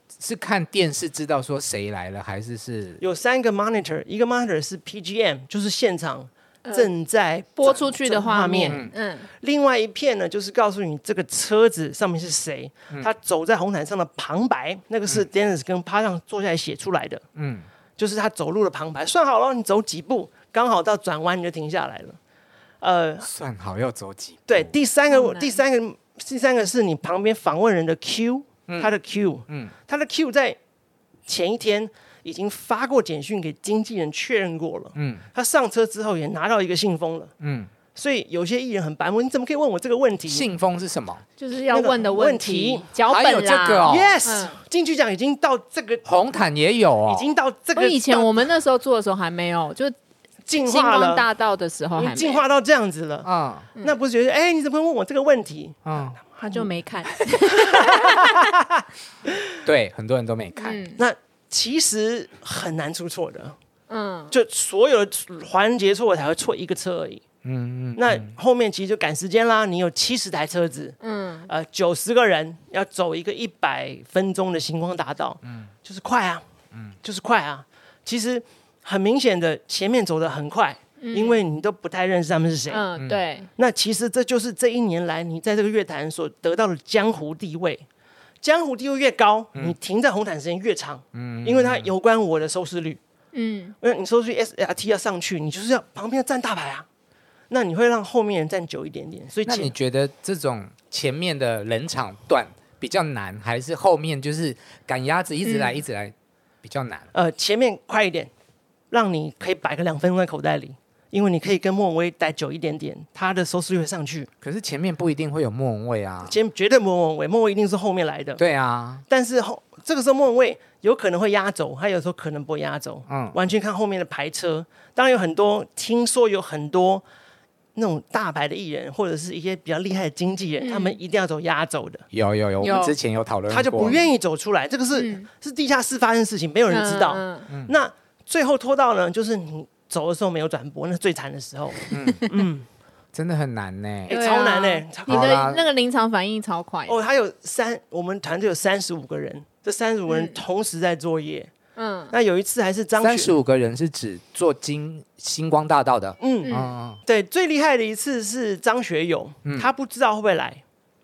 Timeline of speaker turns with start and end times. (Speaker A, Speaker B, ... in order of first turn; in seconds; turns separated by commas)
Speaker A: 0.1-3.0, Speaker B: 3.0-17.2, Speaker C: 6.6-6.9, Speaker C: 7.6-9.3, Speaker A: 17.4-17.7, Speaker B: 18.0-22.2, Speaker B: 22.8-23.3, Speaker A: 23.2-24.7, Speaker B: 24.5-30.6, Speaker C: 25.1-25.6, Speaker A: 28.7-28.9, Speaker B: 31.3-37.3, Speaker A: 35.0-35.2, Speaker A: 37.4-37.7, Speaker B: 38.0-40.5, Speaker A: 40.3-41.2, Speaker C: 41.4-44.5, Speaker B: 41.6-42.9, Speaker A: 43.1-44.2, Speaker B: 43.9-46.0, Speaker A: 46.0-47.3, Speaker B: 47.1-48.5, Speaker C: 47.8-49.9, Speaker B: 50.5-51.3, Speaker C: 50.6-52.5, Speaker B: 51.9-53.3, Speaker A: 53.2-53.7, Speaker B: 53.8-56.7, Speaker A: 55.9-56.2, Speaker C: 56.4-58.4, Speaker B: 57.3-59.6, Speaker A: 59.6-60.8, Speaker C: 60.6-61.0, Speaker B: 61.0-63.6, Speaker C: 63.9-64.3, Speaker B: 64.3-67.2, Speaker A: 67.4-68.3, Speaker B: 68.0-71.0, Speaker C: 71.0-71.5, Speaker B: 71.5-76.4, Speaker B: 77.0-82.8, Speaker C: 81.0-81.4, Speaker C: 82.7-83.5, Speaker B: 83.6-87.9, Speaker B: 88.4-93.0, Speaker A: 91.1-91.9, Speaker C: 93.3-93.8, Speaker B: 93.8-96.9, Speaker B: 97.5-99.7, Speaker A: 99.5-107.1, Speaker C: 105.4-105.8, Speaker B: 107.1-108.3, Speaker B: 108.9-114.3, Speaker A: 114.4-116.4, Speaker B: 116.2-118.4, Speaker A: 118.4-119.0, Speaker B: 119.1-127.0, Speaker A: 123.1-123.3, Speaker B: 127.8-132.1, Speaker C: 130.6-131.0, Speaker A: 132.1-134.0, Speaker C: 132.6-132.9, Speaker B: 133.5-142.7, Speaker C: 135.0-135.3, Speaker C: 136.7-137.5, Speaker A: 137.5-137.7, Speaker A: 141.9-142.2, Speaker A: 143.1-144.2, Speaker B: 144.1-145.5, Speaker C: 144.1-147.0, Speaker A: 145.1-145.6, Speaker B: 146.9-151.5, Speaker C: 150.1-150.4, Speaker C: 151.8-152.1, Speaker B: 152.1-153.3, Speaker A: 153.0-157.0, Speaker B: 156.2-160.6, Speaker C: 156.4-156.7, Speaker A: 159.4-159.7